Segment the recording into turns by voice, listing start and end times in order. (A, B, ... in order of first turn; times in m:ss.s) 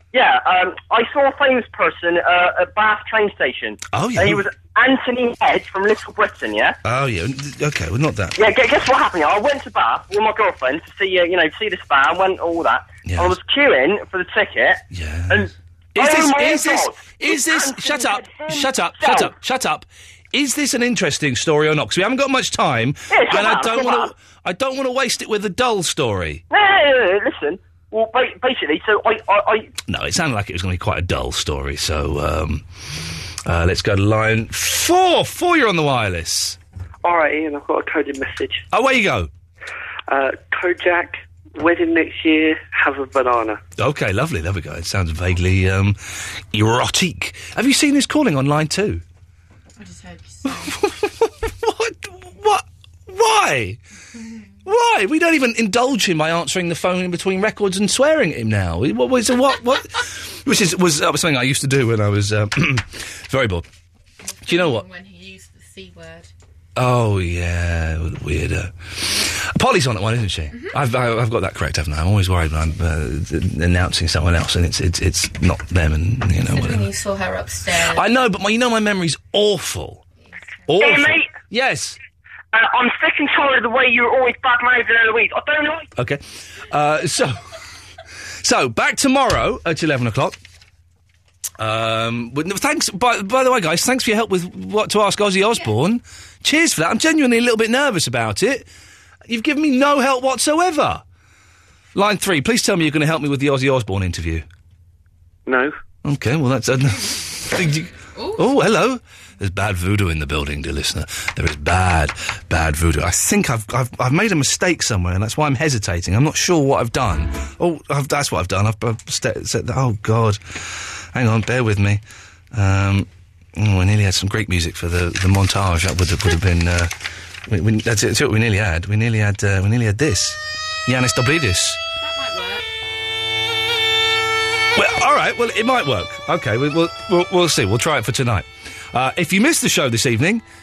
0:00.1-0:06.8 A
0:03.9-0:04.5 B
0:06.8-0:08.4 B
0:08.4-0:19.3 A
0:13.0-0:13.4 B
0:14.9-0:26.4 B
0:23.1-0:24.1 A
0:26.5-0:29.7 A
0:29.9-0:32.6 B
0:33.5-0:36.6 B
0:37.0-0:38.6 C
0:38.7-0:39.3 B
0:40.1-0:43.6 C
0:43.8-0:49.0 B
0:49.9-0:50.6 D
0:50.4-0:53.8 B
0:54.6-1:03.7 B
1:04.4-1:06.3 D
1:04.4-1:04.9 B
1:06.8-1:16.9 B
1:16.5-1:18.0 D
1:17.8-1:20.0 B
1:20.7-1:22.0 B
1:20.8-1:21.3 A
1:22.5-1:25.9 A
1:26.0-1:27.4 B
1:28.4-1:30.4 B
1:31.6-1:38.7 B
1:39.3-1:41.0 B
1:41.9-1:44.4 B
1:45.5-1:45.7 C
1:46.0-2:02.0 B
2:02.5-2:06.9 B
2:07.5-2:11.8 B
2:14.8-2:20.4 B